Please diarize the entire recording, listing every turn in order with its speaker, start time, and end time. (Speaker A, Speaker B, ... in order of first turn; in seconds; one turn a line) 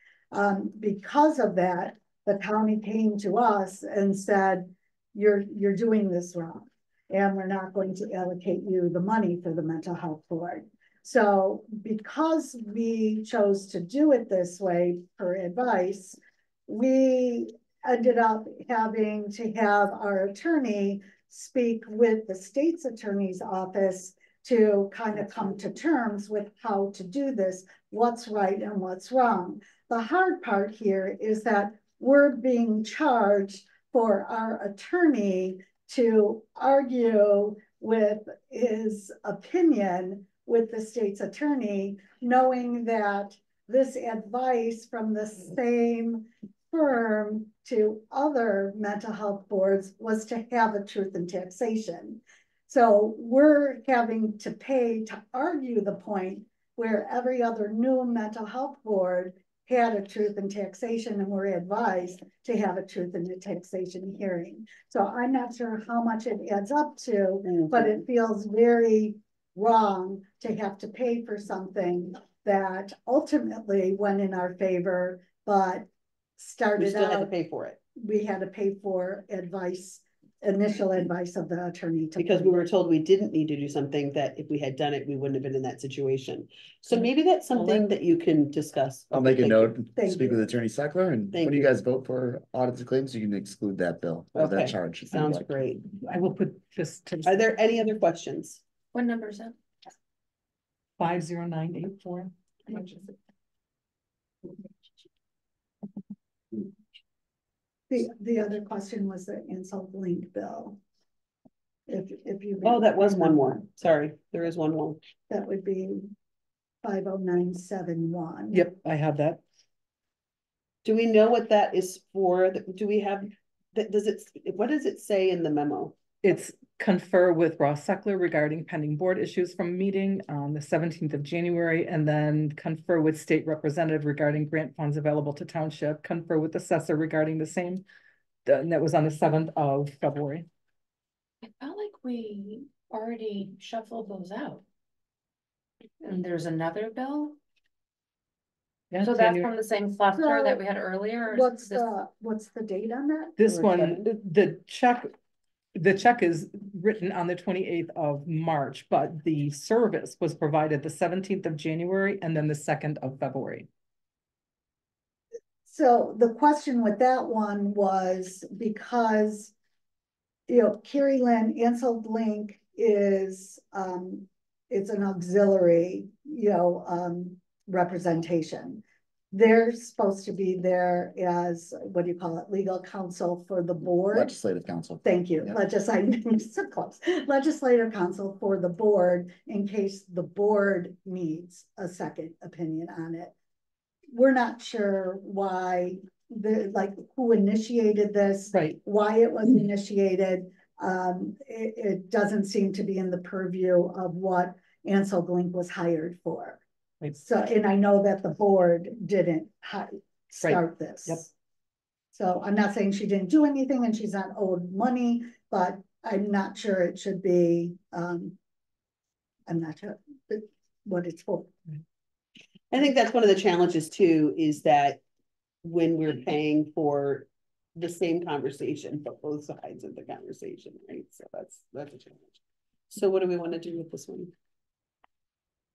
Speaker A: 0.3-77.3
Speaker B: 67.5-68.0
Speaker B: 76.8-77.8
Speaker A: 78.0-82.7
Speaker B: 82.2-89.8
Speaker C: 86.9-87.9
Speaker D: 89.1-95.5
Speaker A: 89.9-90.5
Speaker B: 91.3-91.7
Speaker B: 94.3-95.9
Speaker C: 96.0-97.6
Speaker B: 97.2-98.6
Speaker E: 99.0-99.5
Speaker C: 101.0-103.1
Speaker A: 107.9-110.8
Speaker A: 111.9-113.6
Speaker B: 112.6-115.0
Speaker A: 115.3-116.1
Speaker A: 116.8-118.7
Speaker C: 118.5-119.4
Speaker B: 120.8-126.1
Speaker C: 126.2-137.8
Speaker C: 138.5-140.5
Speaker E: 141.4-144.6
Speaker E: 146.0-147.3
Speaker C: 148.9-149.6
Speaker E: 149.0-151.8
Speaker A: 150.1-150.7
Speaker A: 151.3-153.9
Speaker C: 153.4-155.1
Speaker C: 155.8-163.7
Speaker A: 165.7-169.5
Speaker A: 170.5-184.3
Speaker D: 184.1-185.6
Speaker A: 185.0-193.3
Speaker A: 194.1-206.6
Speaker C: 198.5-198.8
Speaker A: 207.2-211.3
Speaker C: 210.4-211.2
Speaker A: 212.1-218.4
Speaker A: 219.5-221.6
Speaker B: 222.7-225.0
Speaker B: 225.6-234.3